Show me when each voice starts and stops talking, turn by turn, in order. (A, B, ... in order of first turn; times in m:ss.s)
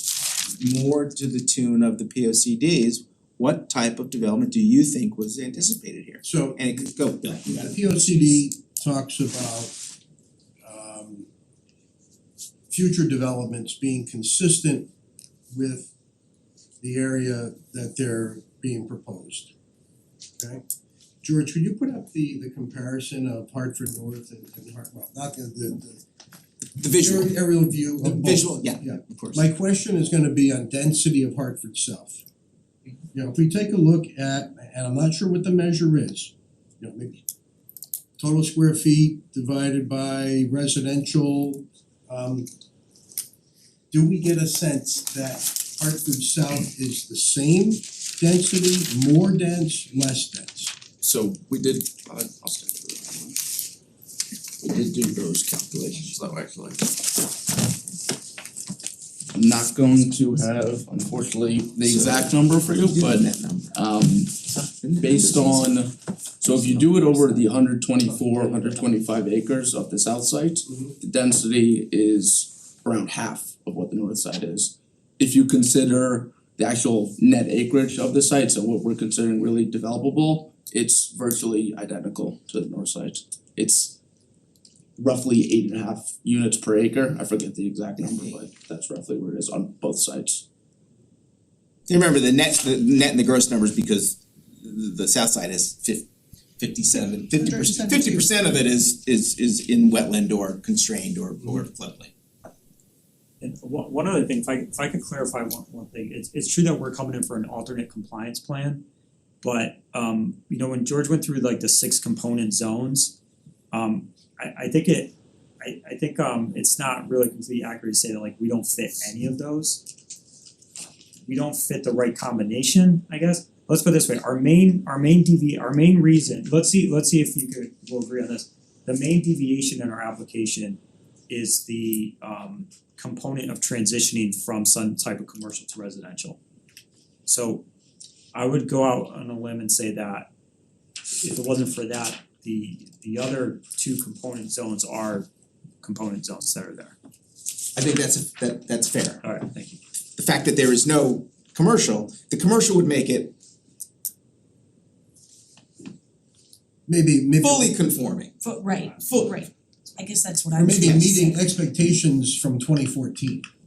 0:00.6-0:08.3 A
0:06.2-0:06.8 B
0:07.4-0:09.8 B
0:10.6-0:11.3 B
0:12.7-0:14.9 B
0:15.5-0:15.9 B
0:16.8-0:19.5 B
0:21.2-0:26.0 B
0:26.8-0:27.3 A
0:27.0-0:32.2 B
0:28.0-0:29.5 A
0:33.1-0:37.2 B
0:38.2-0:42.5 B
0:43.9-0:50.8 B
0:51.0-0:53.4 C
0:54.6-0:57.1 C
0:59.3-1:24.0 C
1:01.9-1:03.8 A
1:04.4-1:05.7 A
1:06.5-1:07.5 A
1:25.0-1:30.4 C
1:31.9-1:36.1 A
1:36.6-1:42.1 A
1:43.4-1:48.8 D
1:49.4-1:53.2 D
1:53.7-1:59.8 D
2:01.3-2:16.4 D
2:17.3-2:17.6 D
2:18.3-2:20.3 D
2:21.2-2:25.3 D
2:25.8-2:27.0 D
2:27.8-2:29.2 A
2:29.2-2:29.8 D
2:30.2-2:33.4 A
2:36.9-2:37.8 B
2:37.4-2:38.4 A
2:38.4-2:41.5 E
2:39.0-2:39.4 A
2:40.5-2:43.5 B